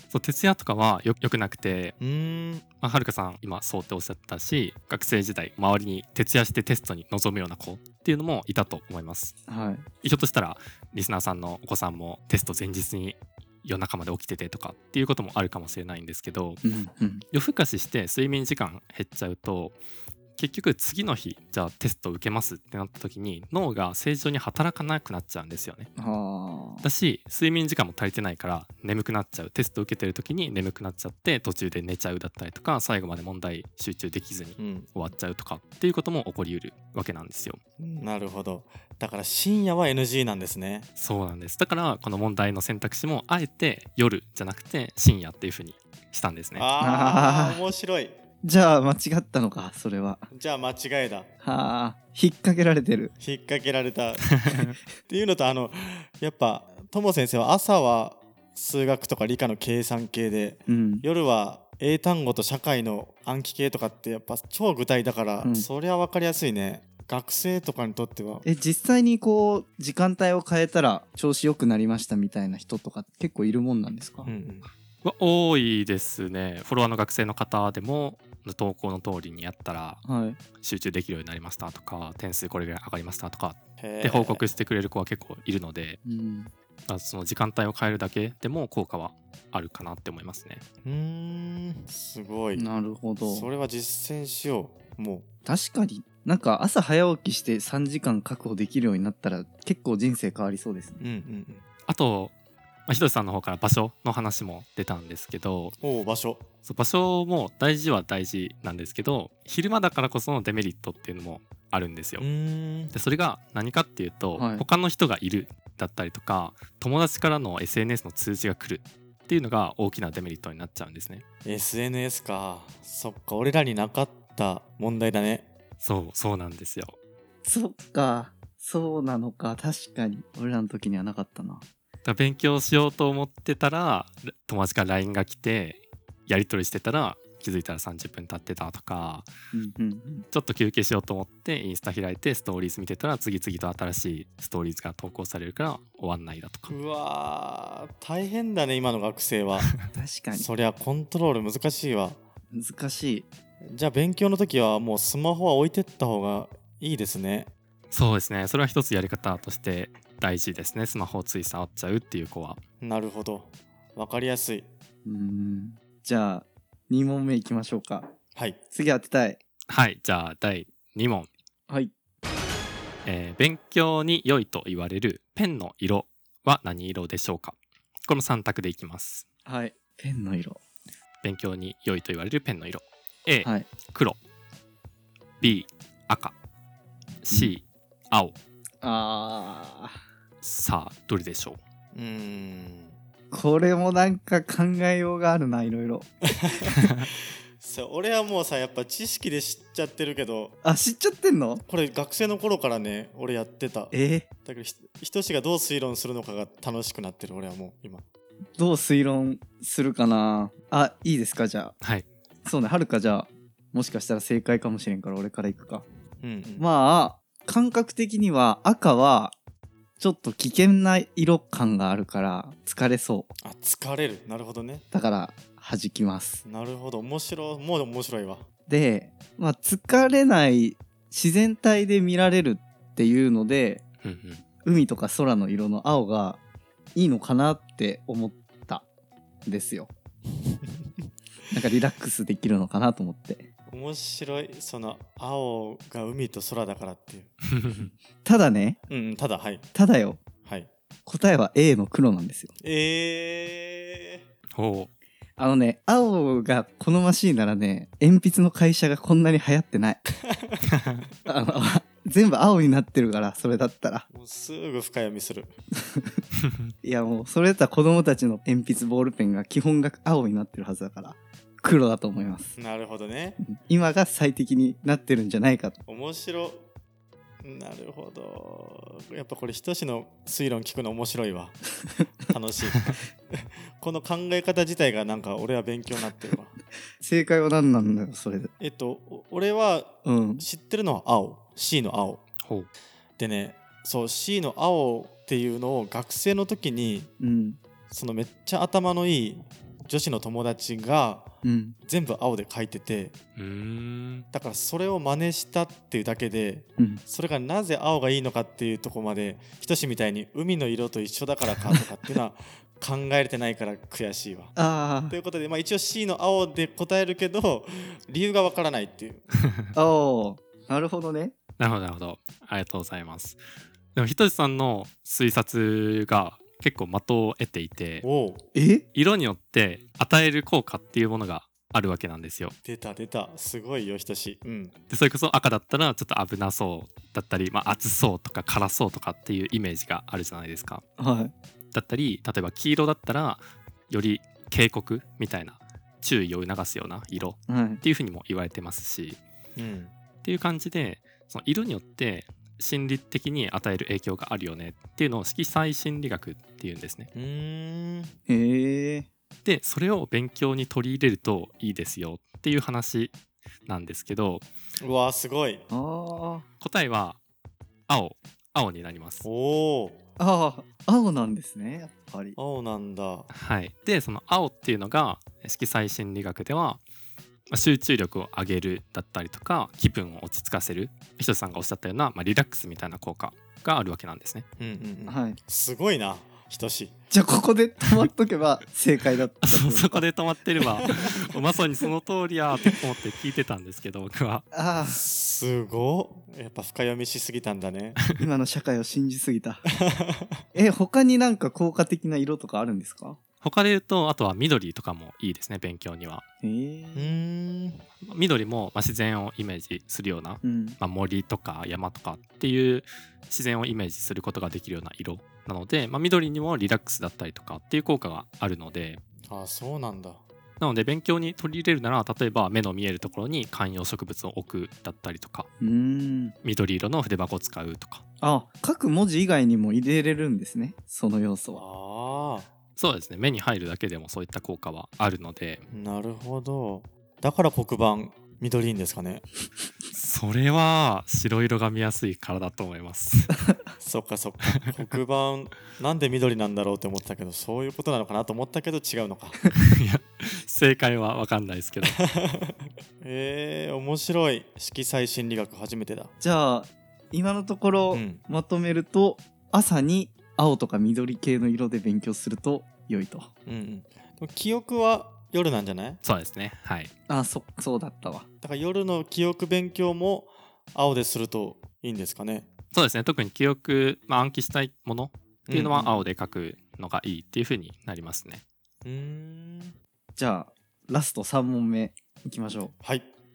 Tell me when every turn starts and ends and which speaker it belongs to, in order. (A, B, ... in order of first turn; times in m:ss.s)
0:00.1-0:01.9 A
0:02.0-0:02.6 B
0:02.8-0:09.4 A
0:09.5-0:09.9 C
0:10.0-0:16.6 A
0:16.6-0:17.2 C
0:17.3-0:19.7 A
0:20.4-0:25.9 A
0:26.0-0:26.8 C
0:26.8-0:37.6 A
0:34.6-0:34.9 B
0:37.8-0:40.9 B
0:41.0-0:46.7 A
0:46.5-0:48.1 B
0:46.8-0:47.6 C
0:48.4-0:50.3 C
0:50.3-0:51.3 B
0:51.4-0:53.1 C
0:53.2-0:54.5 B
0:54.3-0:54.8 A
0:55.0-1:08.4 B
1:00.7-1:01.0 C
1:05.4-1:05.6 C
1:08.4-1:14.3 C
1:14.2-1:14.7 B
1:15.0-1:20.0 A
1:20.0-1:20.4 C
1:20.6-1:26.0 A
1:23.8-1:24.4 B
1:26.0-1:26.5 C
1:26.9-1:30.6 A
1:30.8-1:32.7 B
1:32.6-1:33.5 C
1:33.2-1:35.3 B
1:35.4-1:41.0 C
1:41.0-1:41.6 B
1:41.9-1:42.3 A
1:42.9-1:45.7 A
1:45.8-1:46.5 B
1:46.6-1:52.2 A
1:52.2-1:52.9 B
1:52.9-2:01.2 A
1:54.4-1:54.6 C
2:01.4-2:05.5 B
2:05.8-2:07.0 A
2:07.4-2:11.6 C
2:12.0-2:19.3 A
2:19.5-2:20.3 C
2:20.3-2:26.7 A
2:26.7-2:29.8 B
2:29.9-2:30.5 C
2:30.3-2:32.2 B
2:32.5-2:33.3 C
2:33.6-2:37.5 B
2:37.9-2:42.6 A
2:42.8-2:44.7 B
2:45.0-2:48.1 C
2:48.7-2:49.4 C
2:49.7-2:51.3 A
2:53.0-2:59.2 A
2:59.4-3:00.6 C
3:01.2-3:04.2 A
3:03.4-3:03.7 C
3:05.4-3:06.3 A
3:07.2-3:08.4 A
3:08.8-3:10.0 C
3:10.4-3:11.6 A
3:11.9-3:13.0 B
3:13.3-3:16.5 C
3:16.3-3:20.5 B
3:20.6-3:21.6 C
3:21.7-3:23.9 B
3:23.9-3:24.2 C
3:24.4-3:28.0 B
3:28.6-3:31.7 C
3:31.8-3:32.1 A
3:32.4-3:35.8 C
3:36.2-3:36.7 B
3:36.6-3:39.3 C
3:40.0-3:43.3 C
3:43.4-3:44.8 B
3:44.9-3:46.4 C
3:46.4-3:48.4 B
3:48.7-3:53.8 C
3:54.0-3:54.4 A
3:54.6-3:56.4 C
3:56.9-3:58.8 C
3:59.4-3:59.9 C
4:00.5-4:00.9 B
4:01.5-4:03.5 C
4:03.7-4:07.3 B
4:07.5-4:07.9 A
4:08.2-4:08.8 C
4:08.9-4:09.7 B
4:09.7-4:10.2 C
4:11.0-4:12.5 C
4:12.6-4:14.2 B
4:14.5-4:14.9 A
4:15.4-4:20.0 C
4:20.2-4:20.6 B
4:20.7-4:21.0 A
4:21.2-4:24.0 C
4:24.1-4:25.6 B
4:25.8-4:26.2 C
4:26.8-4:32.5 C
4:32.6-4:33.4 B
4:33.4-4:35.8 C
4:35.9-4:36.6 B
4:37.4-4:41.6 B
4:42.2-4:46.5 B
4:47.0-4:48.5 C
4:48.6-4:52.2 B
4:50.0-4:50.4 C
4:52.4-4:52.7 A
4:53.2-4:57.1 B
4:57.2-4:57.6 C
4:57.9-5:01.3 B
5:01.4-5:01.8 C
5:01.8-5:03.1 B
5:03.3-5:04.3 A
5:04.3-5:14.6 B
5:14.6-5:15.2 C
5:15.1-5:19.4 B
5:19.7-5:21.3 C
5:21.6-5:23.4 A
5:23.9-5:28.0 A
5:28.0-5:28.4 B
5:28.5-5:28.8 C
5:28.9-5:32.5 A
5:32.6-5:34.7 B
5:34.9-5:40.8 A
5:41.0-5:41.3 C
5:41.7-5:49.2 A
5:47.5-5:47.8 C
5:49.6-5:49.9 B
5:50.2-5:57.1 A
5:57.1-5:58.1 B
5:58.3-5:59.1 C
5:59.4-6:03.1 A
6:03.6-6:04.4 A
6:04.8-6:05.6 B
6:05.7-6:06.4 C
6:06.6-6:07.2 A
6:07.9-6:09.3 A
6:09.2-6:10.0 B
6:10.2-6:12.4 C
6:12.4-6:13.3 B
6:13.3-6:16.8 A
6:17.5-6:24.4 A
6:24.6-6:26.9 B
6:25.1-6:25.4 C
6:27.1-6:30.0 C
6:29.4-6:34.4 A
6:34.5-6:35.0 C
6:34.8-6:38.0 B
6:38.1-6:39.6 C
6:39.8-6:40.4 B
6:40.5-6:43.2 C
6:43.4-6:46.2 A
6:46.4-6:47.2 C
6:46.9-6:47.8 B
6:48.0-6:59.0 A
6:50.4-6:50.8 C
6:59.2-7:00.2 B
7:00.6-7:05.5 A
7:05.6-7:06.3 C
7:06.4-7:08.0 A
7:08.2-7:11.6 C
7:11.5-7:12.5 B
7:12.8-7:15.6 A
7:15.7-7:19.2 B
7:19.9-7:23.4 A
7:23.8-7:29.4 B
7:29.5-7:32.0 A
7:31.8-7:36.1 B
7:36.2-7:43.3 C
7:37.9-7:38.2 B
7:43.4-7:46.0 B
7:46.0-7:46.9 A
7:47.1-7:48.2 C
7:48.4-7:52.5 B
7:52.7-7:58.4 A
7:55.5-7:56.0 B
7:58.8-7:59.8 B
8:00.2-8:02.7 C
8:02.8-8:03.1 B